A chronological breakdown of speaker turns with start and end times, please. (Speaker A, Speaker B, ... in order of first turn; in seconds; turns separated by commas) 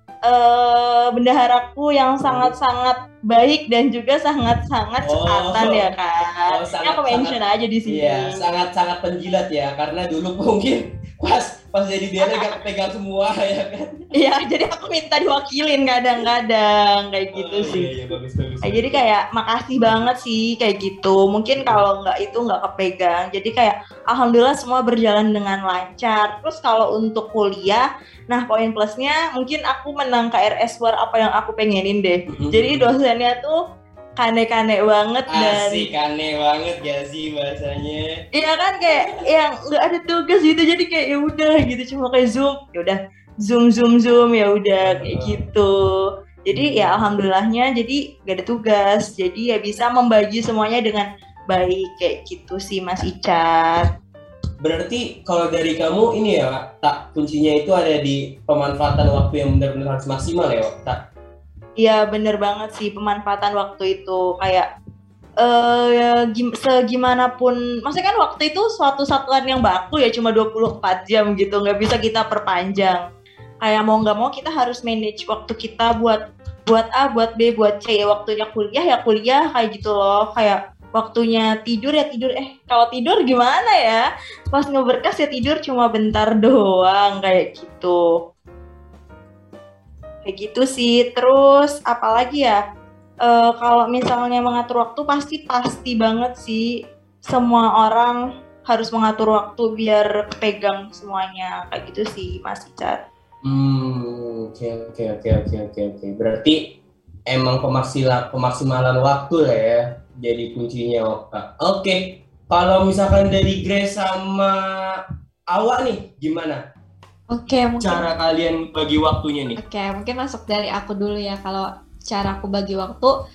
Speaker A: 0.2-8.4, Speaker B: 2.2-2.5, Speaker B: 5.0-5.9, Speaker B: 6.5-7.3, Speaker B: 7.9-13.9, Speaker A: 14.2-17.9, Speaker B: 17.3-19.1, Speaker A: 18.6-33.5, Speaker B: 21.6-21.8, Speaker B: 32.3-32.9, Speaker A: 34.2-35.9, Speaker B: 35.3-38.1, Speaker A: 38.3-53.9, Speaker B: 44.8-45.4, Speaker B: 46.5-47.2, Speaker B: 54.6-61.0, Speaker A: 61.8-64.7, Speaker A: 65.4-73.0, Speaker A: 73.6-88.0, Speaker A: 90.2-92.6, Speaker A: 93.2-96.7, Speaker A: 97.2-103.0, Speaker B: 103.4-106.7, Speaker B: 107.3-114.6, Speaker B: 115.5-116.6, Speaker C: 117.3-118.0, Speaker B: 117.8-119.6, Speaker C: 119.6-123.1